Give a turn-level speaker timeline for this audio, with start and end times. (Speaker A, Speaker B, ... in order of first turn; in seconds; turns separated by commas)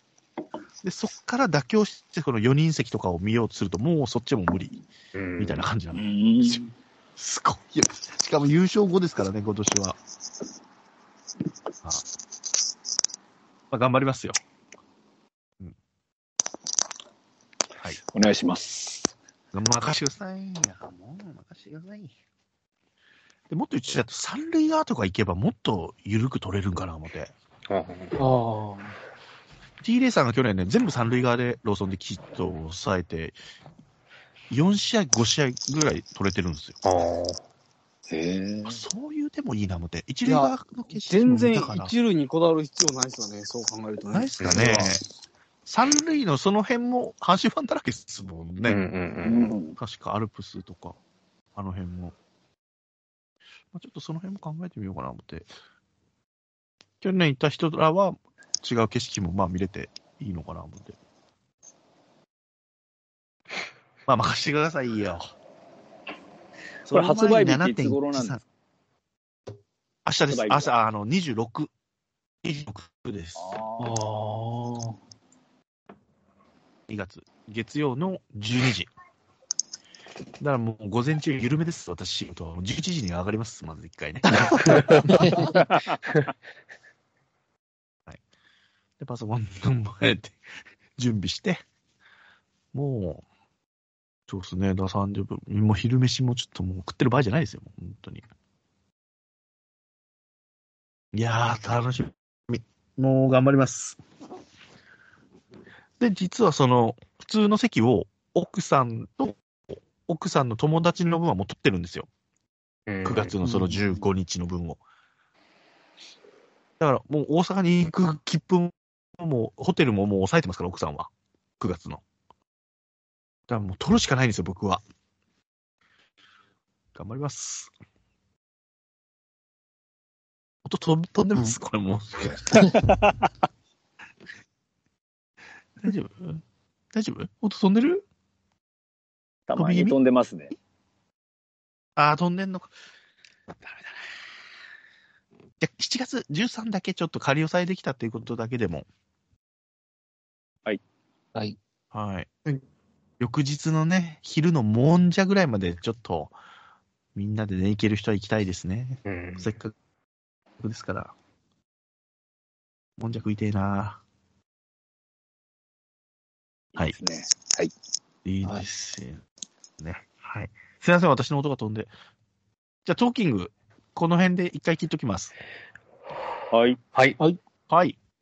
Speaker A: 0.8-4.8, Speaker B: 5.1-5.6, Speaker A: 5.4-6.6, Speaker C: 5.9-6.7, Speaker A: 7.2-10.0, Speaker A: 13.7-14.4, Speaker C: 18.0-19.1, Speaker A: 19.5-22.1, Speaker A: 23.5-27.3, Speaker B: 27.7-28.2, Speaker D: 28.2-29.0, Speaker A: 29.8-33.4, Speaker A: 34.5-36.8, Speaker B: 36.8-37.4, Speaker C: 38.1-38.8, Speaker A: 38.7-41.9, Speaker E: 40.2-44.9, Speaker A: 44.1-45.0, Speaker C: 44.4-44.8, Speaker A: 45.7-48.9, Speaker B: 48.6-49.5, Speaker C: 49.2-49.8, Speaker A: 49.8-51.0, Speaker A: 51.5-52.1, Speaker A: 53.7-55.5, Speaker A: 57.0-61.0, Speaker A: 64.1-65.3, Speaker A: 66.8-68.4, Speaker C: 66.9-68.4, Speaker A: 70.0-71.7, Speaker C: 70.3-70.7, Speaker A: 72.4-73.5, Speaker C: 73.4-74.0, Speaker D: 73.8-75.0, Speaker A: 76.9-78.9, Speaker A: 80.4-85.5, Speaker D: 85.0-85.6, Speaker A: 89.0-90.4, Speaker A: 91.0-91.6, Speaker A: 92.7-93.2, Speaker A: 94.3-98.2, Speaker A: 101.1-104.0, Speaker A: 106.0-109.4, Speaker A: 110.0-112.1, Speaker B: 112.9-113.3, Speaker A: 113.0-114.8, Speaker D: 113.4-113.8, Speaker A: 116.8-122.0, Speaker A: 123.5-124.8, Speaker A: 126.9-127.7, Speaker A: 130.6-132.7, Speaker C: 132.7-133.0, Speaker A: 135.8-138.1, Speaker C: 139.5-140.6, Speaker A: 139.6-140.0, Speaker A: 142.0-142.7, Speaker A: 145.6-148.9, Speaker A: 151.9-152.3, Speaker A: 153.2-156.3, Speaker A: 157.1-159.7, Speaker B: 159.1-159.4, Speaker A: 160.6-161.1, Speaker A: 163.0-164.0, Speaker C: 166.8-167.7, Speaker A: 168.2-169.2, Speaker A: 169.8-171.9, Speaker A: 172.8-175.3, Speaker C: 176.5-176.8, Speaker A: 177.7-178.0